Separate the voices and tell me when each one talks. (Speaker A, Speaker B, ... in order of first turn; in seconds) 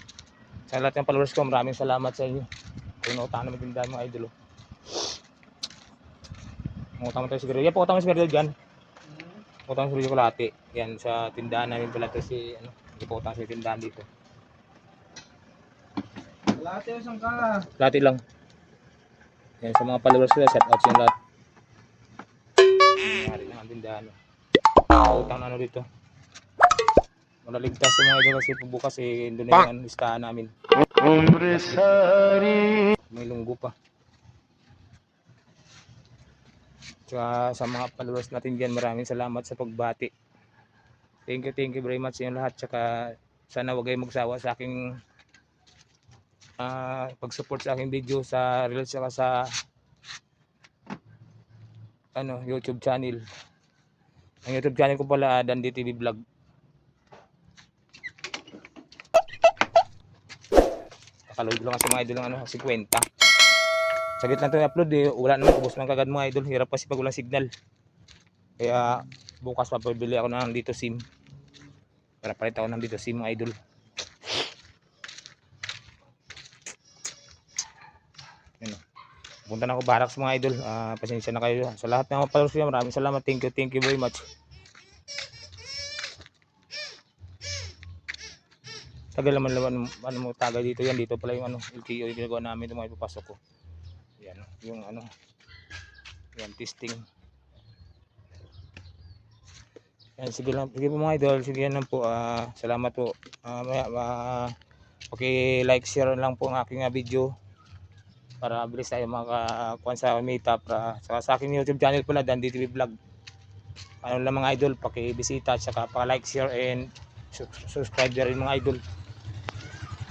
Speaker A: 0.7-2.5, 3.0-4.3, 7.0-8.5, 9.7-14.1, 17.4-18.2, 19.6-21.1, 23.0-24.1, 25.0-25.8, 27.4-30.5, 31.1-33.7, 37.1-40.1, 41.3-45.0, 46.6-49.5, 52.1-53.2, 54.4-56.2, 61.3-63.0, 64.2-67.5, 68.6-71.0, 72.2-73.5, 79.5-84.2, 89.1-93.4, 94.2-95.1, 96.4-97.0, 100.2-104.5, 105.1-107.3, 108.4-112.9, 114.0-118.8
Speaker B: 16.6-17.5, 31.0-31.4, 32.3-32.9